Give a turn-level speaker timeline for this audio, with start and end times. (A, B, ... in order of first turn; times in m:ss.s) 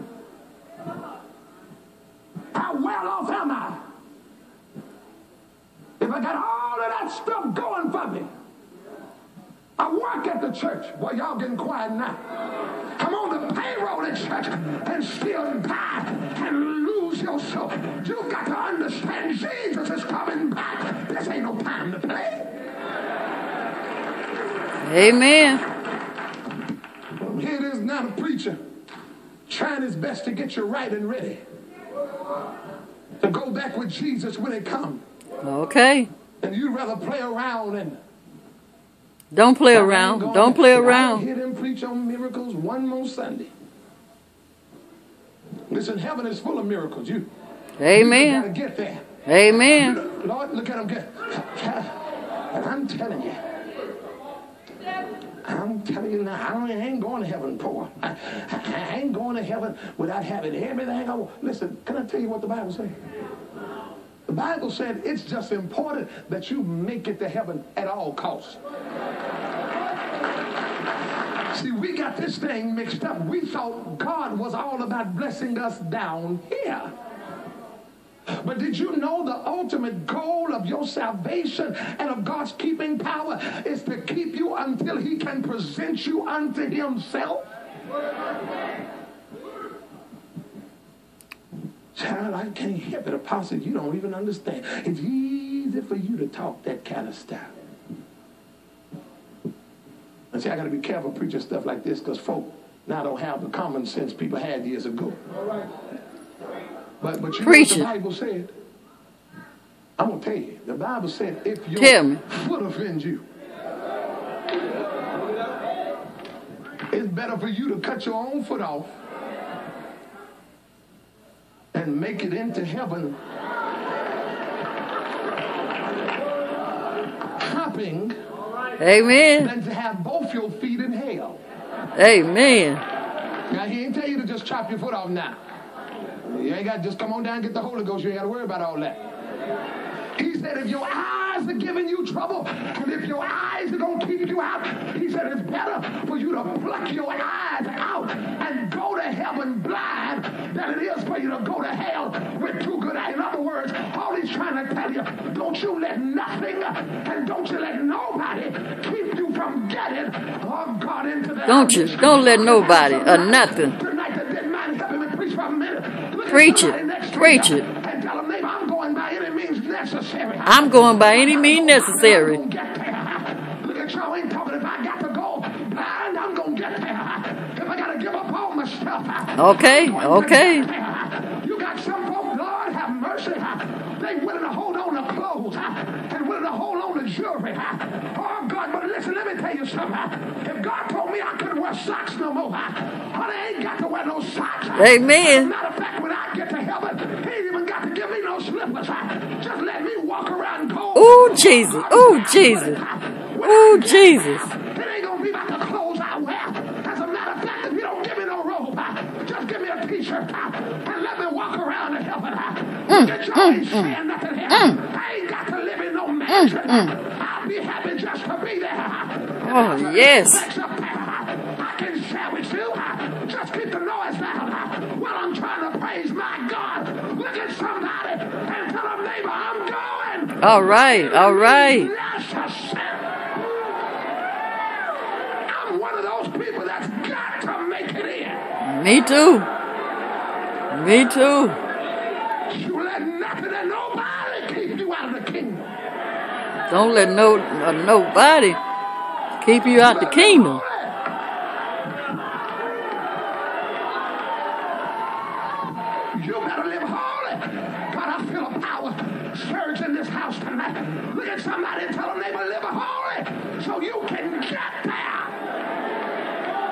0:02.5-0:03.8 A
0:06.0-0:08.3 A
0:09.8-0:12.2 A
0:13.0-0:22.5 A
0:24.8-0:25.6 B
0:27.2-0:28.6 A
0:29.5-0:31.4 A
0:33.2-0:35.0 A
0:35.4-0:36.1 B
0:36.4-0:38.0 A
0:39.3-0:41.2 B
0:39.7-0:43.5 A
0:45.7-0:47.3 A
0:47.8-0:48.4 B
0:47.9-0:49.1 A
0:49.3-0:50.0 B
0:49.7-0:52.0 A
0:52.5-0:53.4 A
0:55.4-1:03.0 A
1:04.3-1:08.6 A
1:11.5-1:16.9 A
1:18.4-1:27.5 A
1:31.9-1:37.5 A
1:40.3-1:45.2 A
1:47.0-1:48.5 A
1:47.4-1:47.9 B
1:50.0-1:53.2 A
1:51.8-1:52.2 B
1:56.9-1:58.9 A
2:01.7-2:03.2 A
2:07.4-2:08.2 A
2:08.8-2:09.5 B
2:09.4-2:11.4 A
2:12.0-2:12.8 B
2:13.5-2:15.4 A
2:16.2-2:19.0 A
2:20.2-3:53.1 A
2:41.5-2:43.8 B
2:46.3-2:47.6 B
2:50.5-2:52.4 B
2:59.4-3:00.7 B
3:14.8-3:15.5 B
3:21.0-3:22.8 B
3:23.4-3:24.5 B
3:32.9-3:34.0 B
3:34.5-3:34.8 B
3:36.3-3:36.9 B
3:39.4-3:40.5 B
3:50.4-3:51.9 B
3:55.5-3:58.4 A
3:58.6-3:59.5 B
4:00.7-4:01.6 B
4:02.5-4:05.7 A
4:06.7-4:08.6 B
4:09.4-4:10.6 B
4:09.8-4:11.1 A
4:16.1-4:25.4 A